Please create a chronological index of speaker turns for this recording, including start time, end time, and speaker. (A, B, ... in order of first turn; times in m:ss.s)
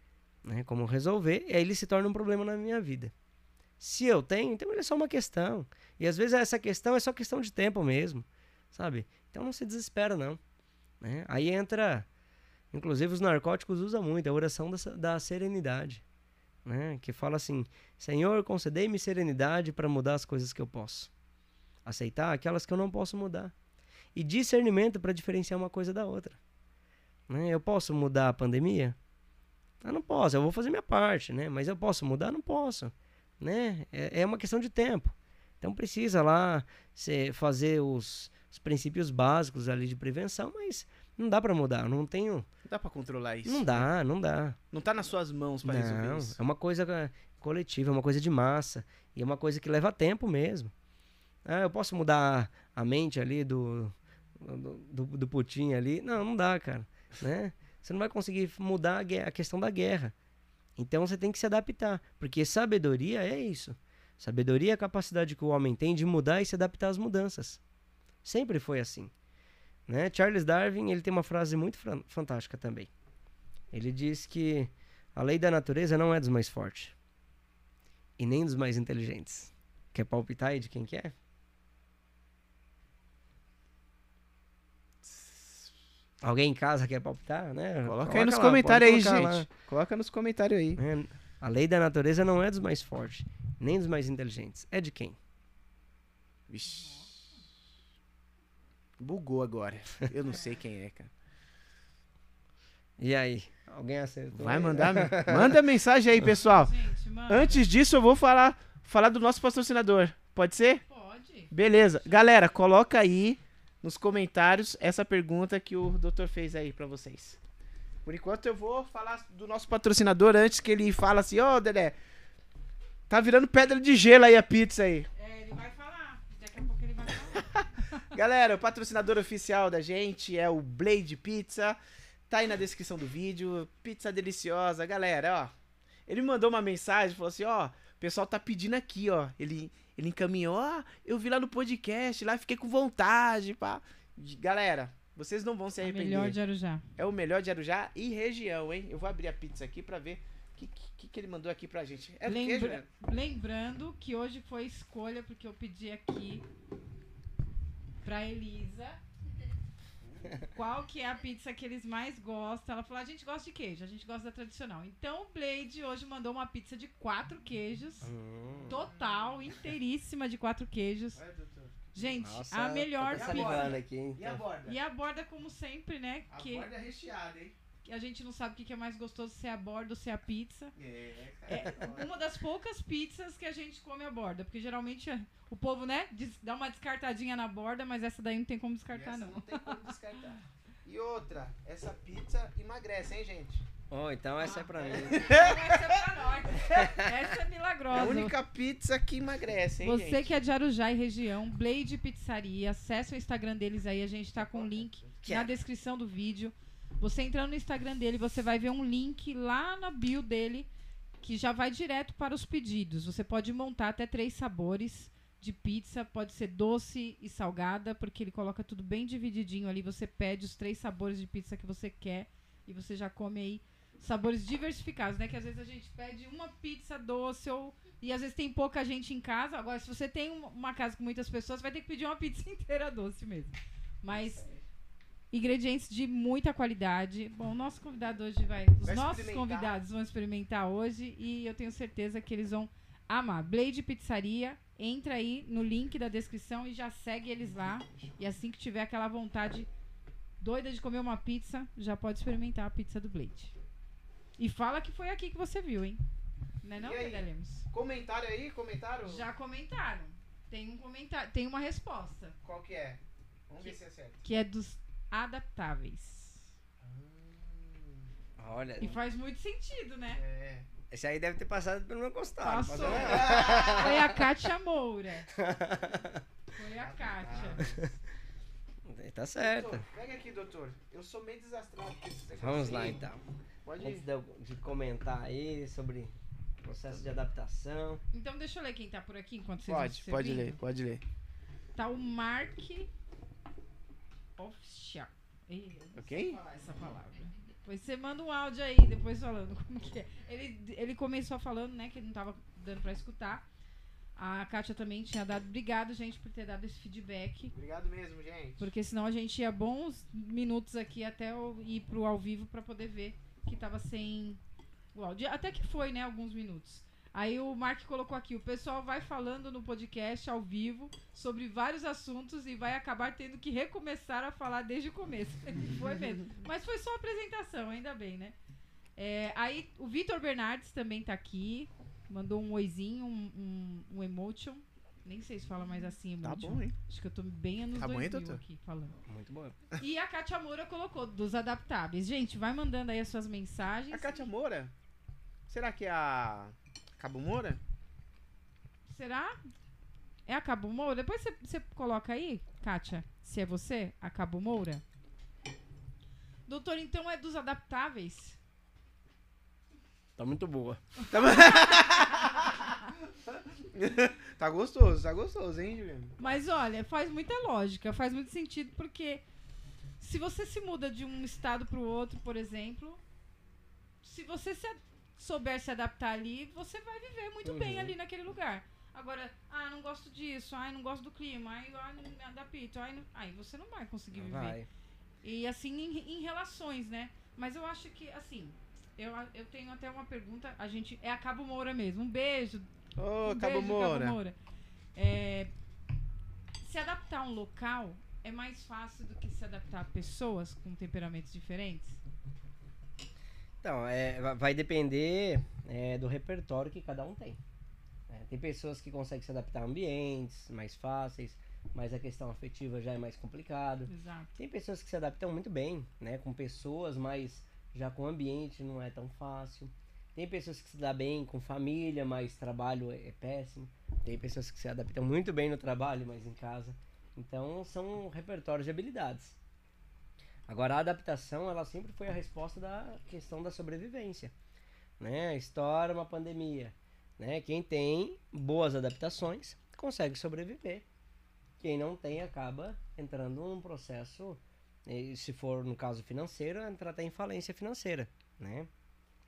0:00.4-0:03.1 A
0:03.8-0:10.4 A
0:11.0-0:12.1 A
0:12.7-0:16.0 A
0:16.6-0:21.1 A
0:21.8-0:23.5 A
0:24.1-0:26.4 A
0:27.3-0:29.0 A
0:29.8-0:42.5 A
0:42.6-0:43.9 B
0:43.4-0:44.6 A
0:44.7-0:46.4 B
0:45.6-0:50.7 A
0:51.4-1:00.1 A
1:00.8-1:07.6 A
1:08.2-1:09.1 A
1:09.9-1:12.9 A
1:13.7-1:16.9 A
1:18.2-1:21.1 A
1:25.0-1:25.7 B
1:26.2-1:29.5 A
1:27.8-1:30.8 B
1:30.8-1:35.2 A
1:36.5-1:37.2 B
1:36.7-1:37.4 C
1:39.0-1:41.1 B
1:40.3-1:40.5 C
1:43.0-1:45.6 A
1:44.3-1:50.8 B
1:46.2-1:47.7 C
1:50.8-1:51.5 C
1:51.5-1:57.4 B
1:52.0-1:52.3 C
1:58.0-2:02.0 B
2:03.1-2:05.1 B
2:05.1-2:08.0 C
2:07.5-2:11.8 B
2:12.3-2:15.5 B
2:16.1-2:26.4 B
2:25.8-2:26.8 C
2:27.0-2:32.8 B
2:32.2-2:36.4 C
2:38.0-2:39.0 C
2:40.4-2:48.1 C
2:48.0-2:48.8 A
2:48.5-2:48.8 B
2:48.7-2:51.2 C
2:51.2-2:52.2 B
2:51.9-2:53.8 C
2:52.2-2:54.4 A
2:53.1-2:54.8 B
2:54.6-2:56.7 C
2:56.3-2:57.5 B
2:57.8-3:00.7 C
3:00.8-3:02.1 B
3:01.5-3:10.4 C
3:08.9-3:13.6 B
3:13.9-3:15.4 A
3:14.4-3:18.3 C
3:14.8-3:16.0 B
3:16.7-3:17.2 A
3:17.9-3:20.3 B
3:19.8-3:30.7 C
3:24.4-3:25.2 B
3:25.2-3:25.5 A
3:31.2-3:54.4 C
3:54.1-3:54.6 B
3:55.3-4:09.7 C
3:58.8-3:59.8 B
4:10.4-4:13.5 C
4:14.4-4:16.0 C
4:16.6-4:17.7 C
4:16.8-4:19.3 B
4:19.0-4:22.4 C
4:22.4-4:24.2 B
4:23.6-4:26.4 C
4:26.8-4:28.0 B
4:28.4-4:29.0 A
4:28.8-4:30.2 C
4:30.1-4:30.7 B
4:30.9-4:34.2 A
4:32.4-4:35.3 C
4:32.6-4:34.0 B
4:35.3-4:36.2 A
4:36.5-4:37.7 C
4:36.8-4:37.9 B
4:37.6-4:37.9 A
4:38.8-4:39.9 A
4:39.4-4:43.0 B
4:42.4-4:43.2 A
4:43.6-4:44.0 B
4:43.8-4:48.0 A
4:48.1-4:50.6 C
4:49.7-4:51.0 B
4:51.7-4:52.9 C
4:54.4-5:03.4 C
4:56.0-4:56.4 B
5:04.2-5:07.5 C
5:07.5-5:08.6 B
5:08.6-5:14.4 C
5:14.9-5:28.3 C
5:29.0-5:39.0 C
5:36.2-5:36.8 B
5:37.8-5:38.4 B
5:39.0-5:39.6 A
5:39.8-5:44.3 C
5:43.9-5:44.7 B
5:45.5-5:47.6 B
5:48.9-5:49.4 C
5:50.2-5:54.8 C
5:56.5-5:58.4 C
6:00.2-6:00.8 A
6:01.1-6:02.8 B
6:01.7-6:02.0 C
6:03.3-6:06.2 B
6:06.2-6:09.2 C
6:10.0-6:13.0 C
6:14.0-6:24.6 C
6:17.4-6:17.9 A
6:24.1-6:24.7 A
6:25.2-6:34.4 C
6:33.0-6:34.2 B
6:34.9-6:35.5 C
6:36.6-6:42.0 C
6:43.6-6:47.4 A
6:48.1-7:09.4 A
6:53.9-6:54.3 C
7:10.5-7:14.3 A
7:15.0-7:20.8 A
7:21.6-7:28.7 A